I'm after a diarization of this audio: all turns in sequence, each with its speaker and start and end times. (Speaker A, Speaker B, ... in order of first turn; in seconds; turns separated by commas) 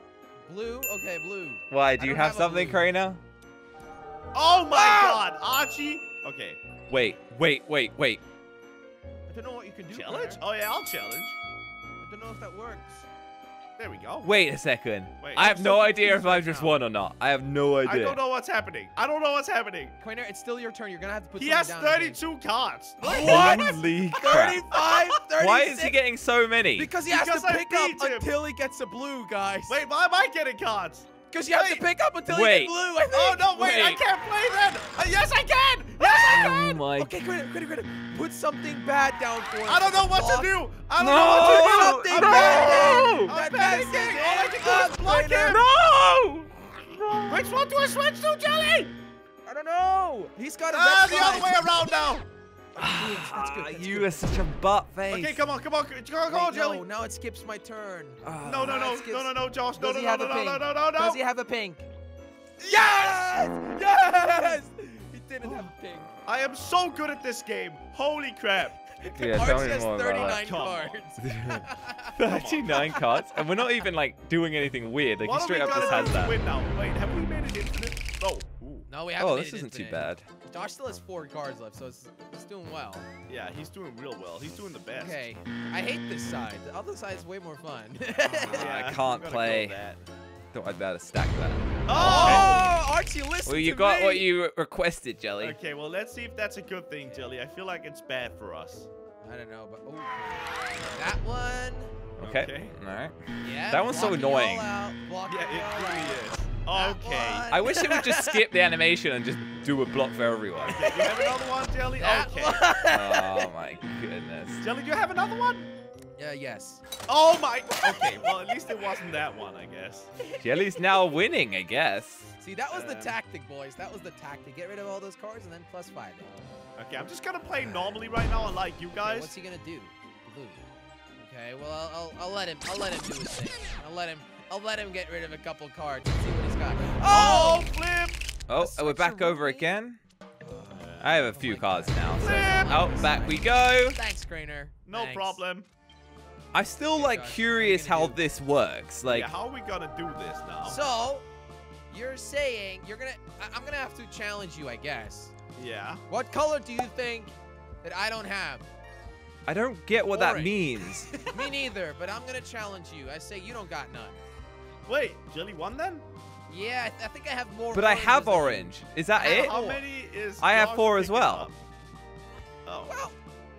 Speaker A: 0.5-2.9, Speaker B: 1.7-3.2, Speaker C: 4.3-6.6, Speaker A: 4.7-5.2, Speaker B: 6.9-8.2, Speaker A: 9.3-10.4, Speaker C: 9.9-11.4, Speaker A: 12.0-13.1, Speaker C: 13.8-14.3, Speaker B: 14.2-18.2, Speaker C: 15.2-16.2, Speaker A: 15.4-16.8, Speaker C: 17.8-20.0, Speaker A: 20.0-22.2, Speaker C: 21.4-25.2, Speaker A: 23.0-26.0, Speaker B: 23.1-24.7, Speaker B: 25.4-26.9, Speaker A: 26.8-29.8, Speaker C: 27.1-28.3, Speaker C: 29.7-31.9, Speaker A: 31.3-34.0, Speaker B: 32.3-32.7, Speaker C: 33.1-36.6, Speaker A: 36.0-40.5, Speaker B: 36.2-37.1, Speaker C: 39.6-45.7, Speaker B: 41.0-43.3, Speaker A: 41.4-45.6, Speaker B: 45.4-47.2, Speaker A: 46.6-47.3, Speaker C: 47.3-48.9, Speaker A: 49.5-51.8, Speaker C: 50.7-52.3, Speaker B: 52.8-55.4, Speaker A: 52.8-54.5, Speaker C: 55.1-56.9, Speaker A: 56.3-61.9, Speaker B: 58.2-58.9, Speaker C: 58.4-61.2, Speaker A: 62.6-66.1, Speaker C: 66.2-68.8, Speaker A: 69.0-73.3, Speaker B: 69.2-70.6, Speaker C: 70.2-71.0, Speaker B: 71.2-76.3, Speaker C: 72.2-72.9, Speaker C: 75.2-78.9, Speaker A: 78.9-83.1, Speaker B: 79.2-80.2, Speaker C: 83.3-85.2, Speaker A: 85.0-88.7, Speaker B: 88.5-89.8, Speaker C: 88.5-90.0, Speaker B: 90.5-92.6, Speaker C: 91.9-92.7, Speaker A: 91.9-94.3, Speaker B: 93.5-95.6, Speaker C: 95.4-98.9, Speaker A: 99.2-102.0, Speaker B: 102.2-104.7, Speaker C: 102.2-102.8, Speaker A: 103.4-108.4, Speaker C: 105.3-107.5, Speaker B: 107.5-110.9, Speaker C: 110.6-112.7, Speaker A: 110.7-111.4, Speaker A: 112.0-113.5, Speaker B: 112.9-114.6, Speaker C: 114.6-115.7, Speaker A: 116.2-116.8, Speaker C: 117.1-120.1, Speaker A: 117.8-118.2, Speaker B: 120.4-122.3, Speaker A: 122.4-126.3, Speaker C: 122.7-123.1, Speaker C: 126.8-129.3, Speaker A: 129.0-130.7, Speaker A: 131.2-137.7, Speaker C: 137.0-138.2, Speaker B: 138.5-140.0, Speaker A: 138.6-139.7, Speaker A: 140.4-145.4, Speaker C: 140.7-141.2, Speaker B: 141.0-144.0, Speaker C: 142.2-142.8, Speaker C: 144.9-145.7, Speaker B: 146.5-149.3, Speaker A: 146.9-148.2, Speaker C: 149.1-150.8, Speaker A: 150.6-151.3, Speaker A: 151.9-155.3, Speaker C: 155.6-156.0, Speaker A: 156.1-158.7, Speaker B: 159.5-161.3, Speaker A: 160.1-164.2, Speaker C: 164.9-166.1, Speaker A: 166.5-169.8, Speaker B: 167.7-169.6, Speaker C: 169.2-171.6, Speaker B: 170.4-171.5, Speaker C: 172.7-173.0, Speaker A: 172.9-173.2